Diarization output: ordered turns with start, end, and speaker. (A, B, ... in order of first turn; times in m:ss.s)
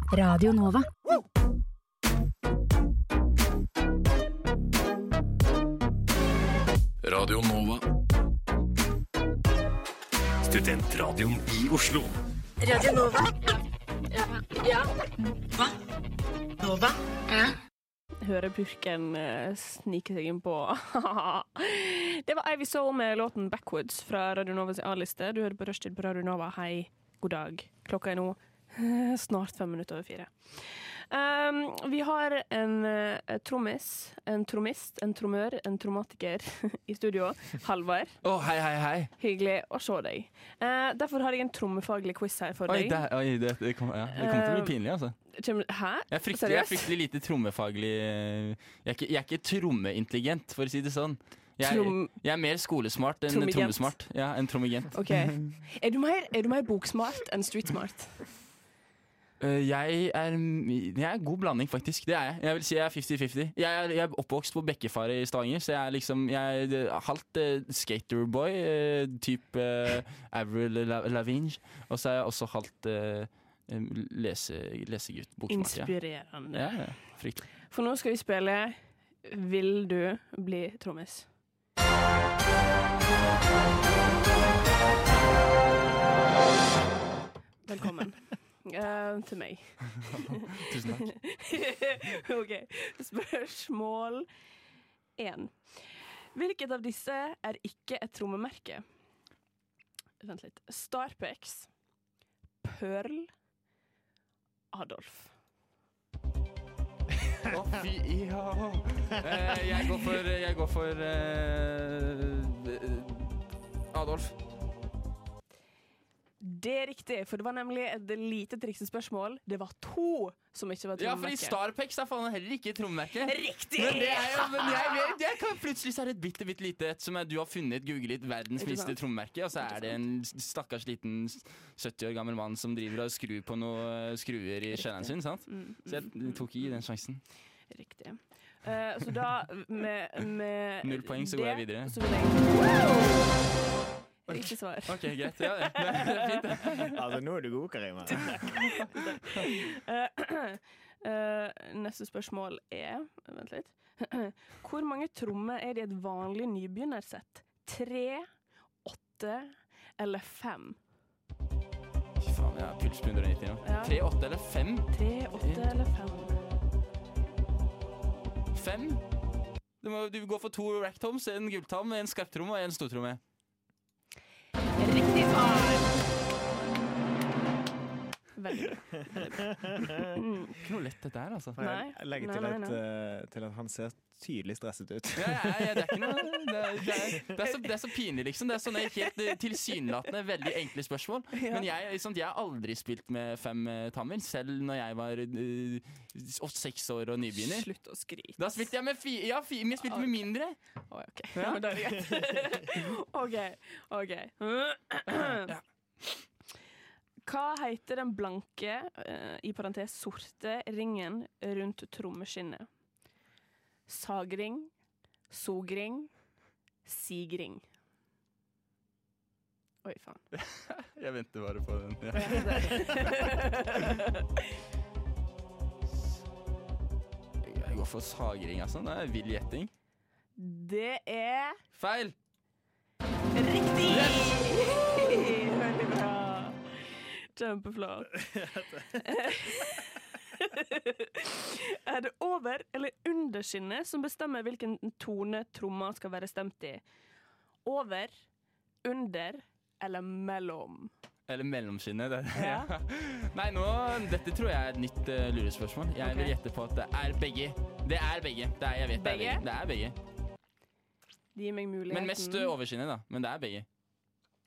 0:00.1-0:00.6 A
0:07.0-0:07.8 B
0:10.5-0:12.1 B
0:12.6-0:13.4 A
0:14.1-0:14.9 A
0:16.6-0:16.9 A
0:18.2-0:38.2 C
0:38.2-0:39.1 D
0:39.2-0:43.0 C
0:42.7-0:45.2 D
0:44.1-0:44.8 C
0:45.3-0:46.9 C
0:46.1-0:55.5 D
0:51.6-0:52.1 C
0:53.3-0:54.0 C
0:54.9-0:58.3 C
0:59.4-1:17.5 D
1:15.5-1:17.0 C
1:17.6-1:21.3 C
1:27.6-1:34.3 C
1:30.7-1:31.1 D
1:35.2-1:38.8 C
1:40.2-1:41.7 C
1:42.6-1:43.3 C
1:44.7-1:45.3 C
1:47.5-1:54.4 D
1:56.4-2:01.6 C
2:01.0-2:17.2 D
2:03.3-2:05.2 C
2:08.6-2:09.0 C
2:09.6-2:10.0 C
2:14.7-2:23.4 C
2:20.8-2:22.0 D
2:24.3-2:27.0 D
2:24.3-2:26.9 C
2:26.9-2:28.9 E
2:28.7-2:38.3 C
2:38.8-2:40.8 C
2:42.2-2:45.7 D
2:43.6-2:44.0 C
2:44.9-2:46.4 C
2:48.5-2:49.0 D
2:49.8-2:53.2 D
2:54.8-2:56.0 C
2:58.4-2:59.4 C
3:00.2-3:00.6 C
3:00.6-3:01.6 D
3:01.6-3:06.2 E
3:01.6-3:02.8 C
3:05.2-3:17.7 D
3:06.9-3:07.6 C
3:11.3-3:11.7 C
3:17.4-3:18.7 C
3:18.4-3:20.6 D
3:19.8-3:20.1 C
3:20.9-3:25.5 C
3:21.3-3:21.6 D
3:25.1-3:25.6 D
3:27.2-3:32.7 C
3:33.9-3:34.7 C
3:35.3-3:36.2 C
3:36.8-3:37.7 C
3:39.8-3:40.2 C
3:40.3-3:43.2 D
3:42.1-3:44.5 C
3:47.4-3:49.7 D
3:50.4-3:51.6 C
3:51.8-3:52.2 D
3:53.3-3:58.2 C
3:53.9-3:54.5 D
3:58.1-3:59.1 E
3:58.9-4:06.8 C
4:07.6-4:08.1 C
4:08.8-4:10.9 C
4:11.3-4:20.0 D
4:12.3-4:12.7 C
4:16.0-4:16.3 C
4:19.0-4:19.4 C
4:21.4-4:22.5 C
4:21.9-4:23.7 D